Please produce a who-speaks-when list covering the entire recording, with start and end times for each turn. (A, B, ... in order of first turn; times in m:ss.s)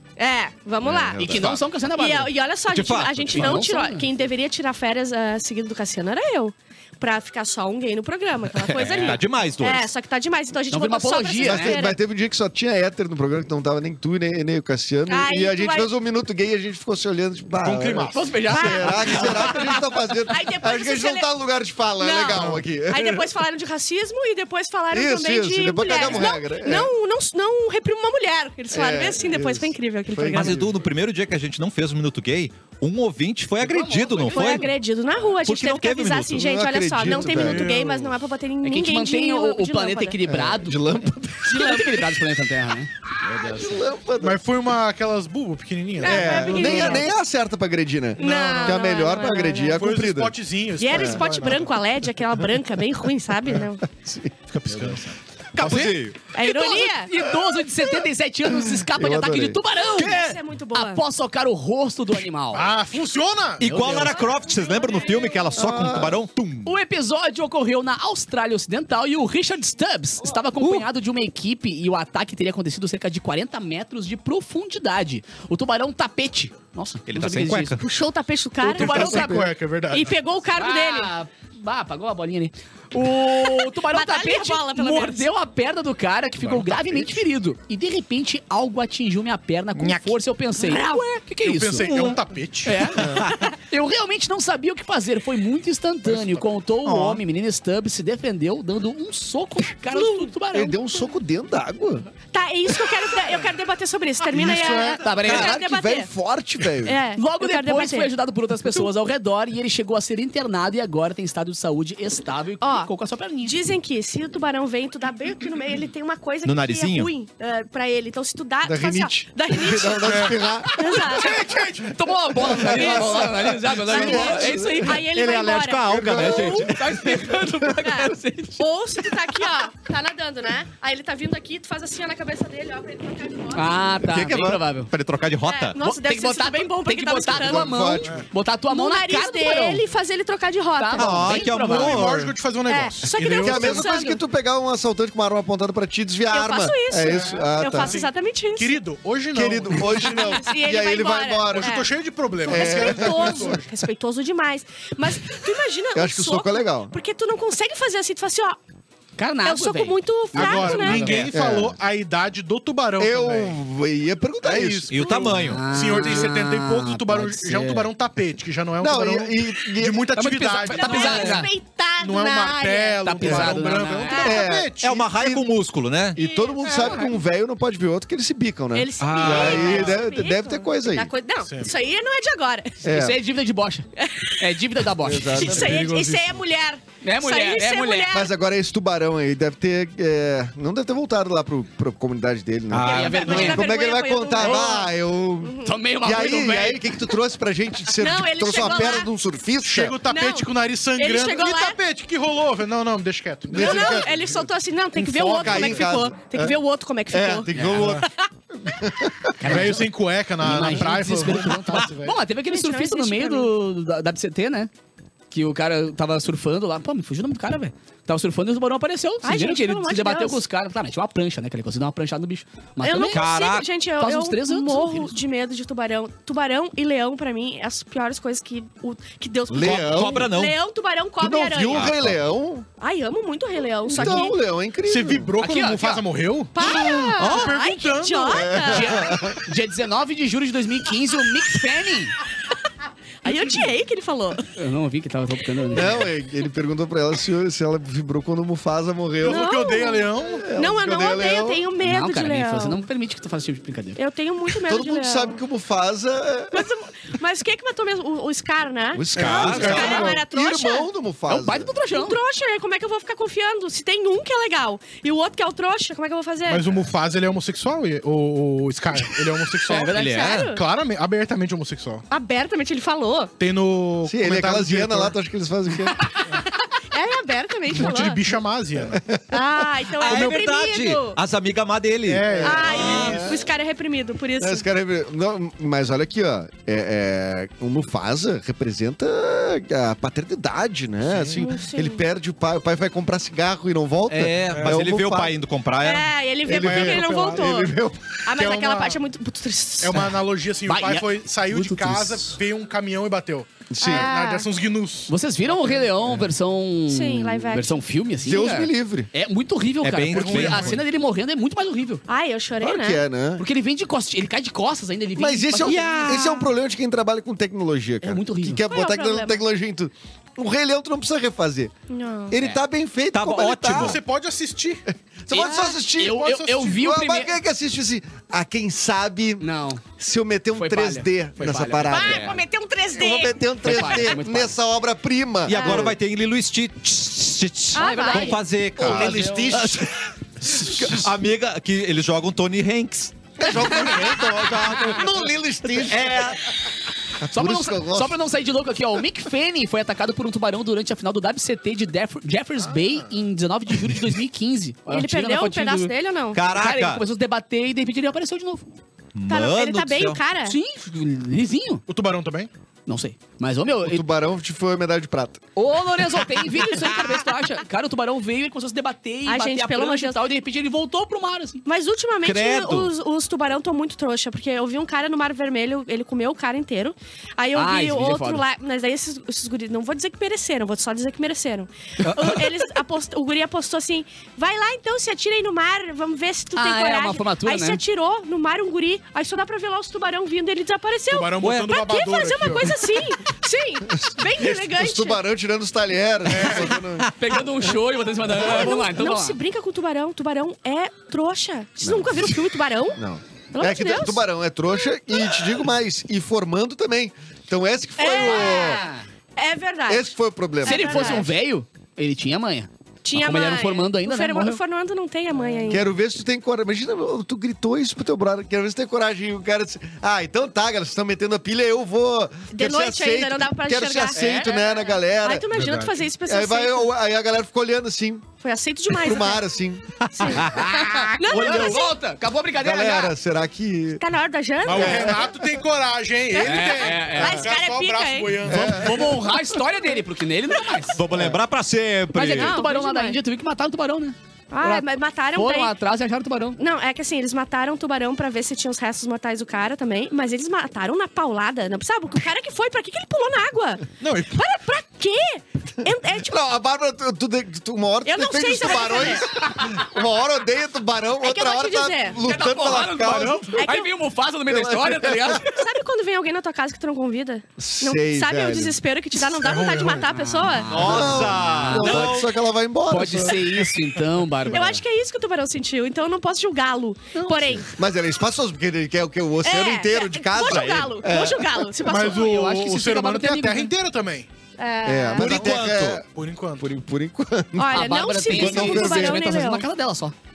0:00.2-0:01.4 A
0:00.8-0:01.6 B
0:01.2-0:02.3 C
0:02.0-0:12.0 A
0:02.7-0:03.6 D
0:03.3-0:04.1 C
0:08.6-0:09.9 D
0:08.8-0:09.2 C
0:10.7-0:11.8 C
0:11.4-0:23.3 B
0:15.1-0:15.9 A
0:17.6-0:18.3 E
0:18.1-0:19.6 C
0:18.5-0:21.3 A
0:22.0-0:30.6 A
0:22.3-0:22.6 E
0:24.9-0:26.9 B
0:28.7-0:30.7 B
0:30.3-0:34.7 D
0:33.6-0:34.7 C
0:34.3-0:40.3 A
0:35.4-0:36.4 D
0:36.4-0:37.7 B
0:37.0-0:38.2 E
0:38.6-0:40.8 C
0:40.3-0:41.8 B
0:41.4-0:43.8 C
0:41.5-0:42.0 A
0:43.3-0:44.4 B
0:44.2-0:47.1 E
0:46.0-0:47.1 A
0:46.0-0:50.4 B
0:48.2-0:49.9 A
0:48.2-0:49.0 E
0:49.8-0:51.7 E
0:50.8-0:53.8 A
0:50.9-0:51.2 B
0:53.9-0:54.3 B
0:54.5-0:55.9 E
0:54.7-0:55.0 C
0:55.6-0:56.2 D
0:56.3-0:57.1 A
0:56.4-1:00.2 C
0:58.5-0:59.6 B
0:59.8-1:01.0 A
1:00.0-1:00.4 D
1:00.8-1:02.7 C
1:02.5-1:03.7 E
1:03.6-1:06.8 D
1:03.6-1:04.2 C
1:04.0-1:05.6 A
1:05.6-1:06.2 B
1:06.6-1:17.8 C
1:10.6-1:10.8 A
1:17.1-1:17.8 D
1:17.8-1:19.1 A
1:18.6-1:19.5 C
1:18.7-1:20.2 E
1:18.8-1:19.5 B
1:19.9-1:21.1 A
1:20.6-1:32.0 C
1:23.4-1:25.3 A
1:26.5-1:27.1 B
1:29.8-1:30.1 E
1:30.6-1:31.2 A
1:31.4-1:32.9 E
1:32.6-1:40.8 C
1:33.0-1:33.2 B
1:33.2-1:33.5 A
1:36.8-1:37.2 D
1:39.9-1:40.3 A
1:40.5-1:42.1 B
1:42.3-1:46.1 A
1:44.3-1:47.0 B
1:44.4-1:44.8 E
1:45.0-1:45.6 C
1:46.8-1:48.1 A
1:47.2-1:53.6 C
1:52.6-1:52.9 A
1:53.4-2:01.4 A
1:56.4-1:57.1 D
1:58.6-2:01.5 B
2:00.1-2:00.4 E
2:00.9-2:05.0 C
2:01.2-2:01.9 E
2:02.4-2:05.0 B
2:02.6-2:06.7 A
2:04.9-2:07.2 D
2:05.9-2:06.7 B
2:06.1-2:08.6 C
2:07.8-2:13.9 A
2:13.5-2:14.9 C
2:14.1-2:15.8 D
2:15.4-2:18.0 A
2:15.8-2:19.8 C
2:17.3-2:18.2 B
2:18.7-2:21.5 A
2:20.8-2:22.1 C
2:21.0-2:22.3 D
2:21.6-2:23.9 E
2:22.7-2:24.2 A
2:23.3-2:28.0 B
2:26.3-2:28.8 A
2:27.0-2:30.4 E
2:29.3-2:31.8 B
2:30.0-2:31.9 A
2:31.5-2:33.7 E
2:32.4-2:38.6 A
2:32.4-2:33.6 B
2:35.9-2:37.0 B
2:39.2-2:41.3 C
2:39.4-2:41.3 A
2:40.3-2:43.6 E
2:41.3-2:41.8 B
2:43.0-2:45.3 B
2:44.4-2:51.5 E
2:44.9-2:45.7 D
2:45.0-2:45.5 A
2:45.4-2:47.9 C
2:48.8-2:50.1 B
2:50.2-2:51.5 C
2:50.6-2:53.5 A
2:52.0-2:55.1 E
2:53.0-2:54.4 C
2:54.1-2:54.5 A
2:54.2-2:55.5 B
2:54.8-2:56.2 D
2:56.2-3:01.1 B
2:56.2-2:57.2 A
2:58.7-3:02.8 A
2:59.0-2:59.7 D
2:59.4-3:00.0 E
3:02.8-3:03.2 B
3:02.8-3:03.9 C
3:04.0-3:04.4 A
3:04.4-3:05.8 C
3:05.0-3:05.9 B
3:05.3-3:08.3 A
3:05.6-3:06.3 E
3:07.0-3:08.1 C
3:08.1-3:20.0 B
3:12.7-3:13.6 D
3:12.7-3:13.6 C
3:12.9-3:15.8 A
3:14.4-3:14.7 C
3:15.6-3:17.0 C
3:17.9-3:19.1 A
3:19.6-3:24.2 E
3:20.1-3:21.8 A
3:23.5-3:24.4 B
3:23.5-3:28.2 A
3:25.0-3:25.9 E
3:25.3-3:26.6 B
3:27.1-3:28.1 B
3:27.5-3:27.8 C
3:27.7-3:28.0 E
3:28.6-3:29.7 B
3:29.4-3:29.9 C
3:29.4-3:32.2 E
3:30.4-3:34.7 C
3:32.4-3:33.5 A
3:35.3-3:43.3 C
3:39.2-3:40.4 A
3:42.8-3:51.9 A
3:43.1-3:43.7 D
3:44.0-3:45.2 C
3:49.5-3:50.3 B
3:49.6-3:50.6 D
3:51.2-3:52.7 B
3:51.7-3:52.2 D
3:52.8-3:54.4 A
3:53.9-3:55.3 B
3:54.8-3:58.5 E
3:55.4-3:56.0 C
3:56.6-3:59.0 A
3:56.6-3:57.1 B
3:58.3-3:59.5 B
3:58.6-4:02.2 C
4:03.2-4:04.4 A
4:03.3-4:03.6 E
4:04.6-4:06.1 C
4:05.7-4:09.6 B
4:09.2-4:10.4 E
4:09.2-4:12.8 A
4:10.4-4:11.6 B
4:11.8-4:14.0 C
4:14.0-4:15.4 A
4:14.7-4:16.6 B
4:16.5-4:20.9 A
4:19.0-4:20.1 D
4:19.2-4:20.2 E
4:19.3-4:21.7 B
4:21.3-4:22.2 C
4:21.9-4:26.7 A
4:26.5-4:32.0 E
4:29.7-4:30.5 C
4:29.9-4:30.6 A
4:30.0-4:30.3 D
4:32.1-4:33.3 A
4:33.4-4:35.1 E
4:34.0-4:36.0 B
4:36.5-4:38.2 A
4:37.7-4:39.0 E
4:38.8-4:39.4 B
4:39.3-4:41.2 A
4:40.0-4:43.2 D
4:40.1-4:40.4 E
4:42.1-4:43.3 E
4:42.4-4:44.6 A
4:42.9-4:43.4 B
4:44.4-4:55.4 B
4:51.1-4:51.4 E
4:51.4-4:52.0 A
4:54.1-4:56.1 D
4:54.5-4:54.8 E
4:55.8-5:00.1 A
4:56.4-4:57.6 E
4:56.4-4:58.9 B
4:59.8-5:06.1 E
5:00.7-5:02.4 C
5:03.7-5:04.1 B
5:03.8-5:04.5 A
5:05.1-5:12.0 C
5:06.9-5:07.8 A
5:08.2-5:09.1 B
5:09.8-5:10.8 D
5:10.1-5:10.8 E
5:12.1-5:13.0 A
5:12.6-5:13.5 B
5:13.4-5:16.2 C
5:15.2-5:21.7 B
5:15.7-5:16.4 D
5:15.7-5:16.5 A
5:18.0-5:18.6 C
5:18.7-5:19.4 A
5:21.9-5:22.4 A
5:22.3-5:24.0 B
5:23.1-5:24.0 D
5:23.6-5:24.8 E
5:25.2-5:32.4 B
5:25.3-5:25.8 A
5:25.3-5:27.4 C
5:25.5-5:26.9 E
5:29.4-5:29.8 C
5:30.6-5:32.4 C
5:31.8-5:34.1 A
5:32.9-5:36.0 B
5:33.6-5:34.6 C
5:35.4-5:39.9 D
5:35.5-5:35.9 A
5:37.8-5:38.4 A
5:37.8-5:39.8 C
5:38.8-5:39.9 B
5:38.9-5:39.4 E
5:40.4-5:45.1 D
5:40.6-5:41.0 B
5:43.4-5:46.2 B
5:45.8-5:46.4 D
5:47.2-5:48.2 B
5:47.3-5:55.9 C
5:54.9-5:56.4 A
5:56.3-5:57.0 D
5:56.4-5:58.8 C
5:59.2-6:00.2 D
5:59.3-6:00.6 A
6:00.4-6:01.8 C
6:01.9-6:02.5 E
6:02.9-6:04.1 C
6:03.8-6:05.4 B
6:05.6-6:11.6 C
6:09.3-6:10.2 A
6:11.7-6:35.2 A
6:12.2-6:12.9 D
6:17.6-6:18.4 C
6:22.0-6:22.6 C
6:26.6-6:27.8 C
6:31.1-6:32.9 E
6:31.4-6:31.7 C
6:34.1-6:37.7 B
6:36.3-6:36.8 E
6:37.0-6:39.4 C
6:38.3-6:43.0 A
6:41.8-6:48.8 B
6:43.5-6:44.2 A
6:48.0-6:48.8 A
6:48.2-6:49.1 C
6:49.4-6:51.3 A
6:49.9-6:51.3 B
6:50.6-6:54.6 C
6:53.0-6:55.9 A
6:55.7-7:05.5 B
7:02.5-7:06.9 A
7:04.1-7:04.6 C
7:05.5-7:06.0 E
7:06.3-7:08.3 B
7:08.4-7:09.4 A
7:08.9-7:09.8 B
7:10.0-7:11.1 D
7:10.2-7:12.0 A
7:10.4-7:13.2 C
7:11.3-7:11.8 B
7:12.6-7:14.0 B
7:14.0-7:15.2 A
7:14.6-7:19.2 E
7:14.7-7:15.3 B
7:16.3-7:18.5 A
7:16.4-7:17.5 C
7:18.4-7:19.2 B
7:18.5-7:21.0 C
7:21.0-7:22.6 D
7:22.1-7:26.6 C
7:22.3-7:23.2 A
7:24.5-7:25.7 A
7:26.6-7:36.4 A
7:34.0-7:34.4 E
7:36.2-7:43.7 B
7:38.0-7:39.3 A
7:41.2-7:42.2 A
7:42.2-7:45.6 C
7:43.6-7:43.9 A
7:44.5-7:45.4 B
7:45.4-7:50.9 A
7:47.6-7:48.8 B
7:49.4-7:50.0 E
7:49.9-7:52.3 C
7:50.7-7:52.4 D
7:50.7-7:53.7 B
7:52.9-7:54.8 C
7:54.5-7:57.7 A
7:57.1-7:57.6 C
7:57.6-8:01.7 B
7:59.4-8:02.2 A
8:00.5-8:00.9 D
8:01.8-8:04.3 E
8:01.9-8:03.7 C
8:04.6-8:05.5 A
8:04.8-8:06.0 B
8:05.2-8:06.0 D
8:05.3-8:05.6 E
8:06.1-8:06.7 E
8:06.6-8:09.4 B
8:07.6-8:09.7 A
8:07.7-8:10.2 C